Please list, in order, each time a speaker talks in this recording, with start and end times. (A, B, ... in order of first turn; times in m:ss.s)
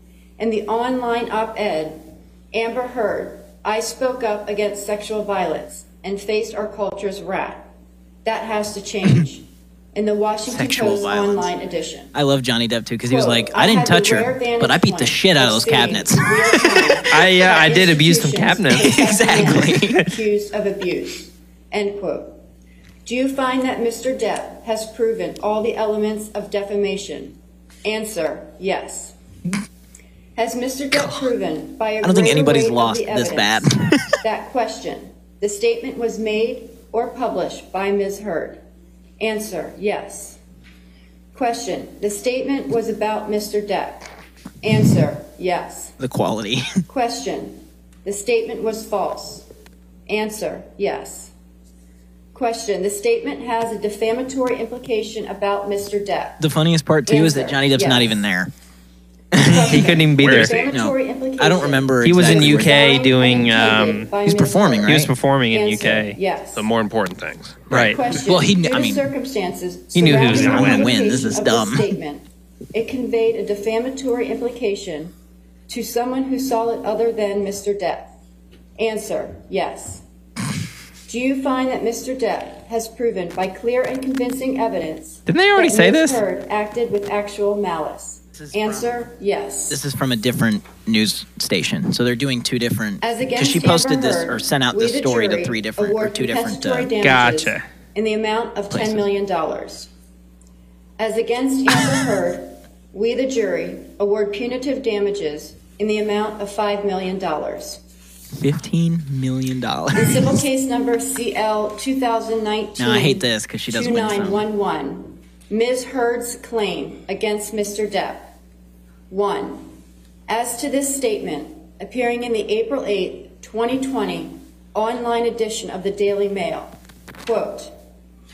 0:00.4-0:07.6 A
0:08.2-0:12.1 A
0:10.5-0:11.5 B
0:12.1-0:17.0 B
0:13.1-0:22.4 A
0:17.1-0:20.0 C
0:18.8-0:20.0 B
0:23.0-0:29.2 A
0:30.4-0:38.6 A
0:32.0-0:34.2 B
0:39.2-0:40.4 A
0:41.3-0:44.1 A
0:44.6-0:45.9 A
0:46.0-0:46.8 B
0:46.9-0:49.4 A
0:50.1-0:51.3 A
0:52.3-0:56.4 A
0:56.4-0:58.5 B
0:57.1-0:58.1 A
0:59.3-0:59.8 B
0:59.4-1:04.9 A
0:59.4-1:00.6 C
1:00.2-1:00.7 D
1:00.7-1:02.8 B
1:02.0-1:04.1 C
1:04.2-1:05.1 B
1:04.9-1:06.2 C
1:05.5-1:06.7 A
1:06.5-1:07.9 D
1:07.7-1:08.0 C
1:07.7-1:09.0 B
1:07.7-1:15.1 A
1:10.0-1:10.9 C
1:10.0-1:11.9 B
1:15.7-1:18.1 A
1:18.8-1:20.0 A
1:21.1-1:29.8 A
1:25.3-1:26.2 C
1:28.3-1:29.0 B
1:29.7-1:36.9 B
1:33.0-1:39.9 A
1:37.0-1:37.6 C
1:38.7-1:39.0 B
1:41.0-1:47.8 A
1:48.4-1:50.4 B
1:50.0-1:58.3 A
1:52.8-1:54.4 B
1:59.1-1:59.7 A
2:00.3-2:07.8 A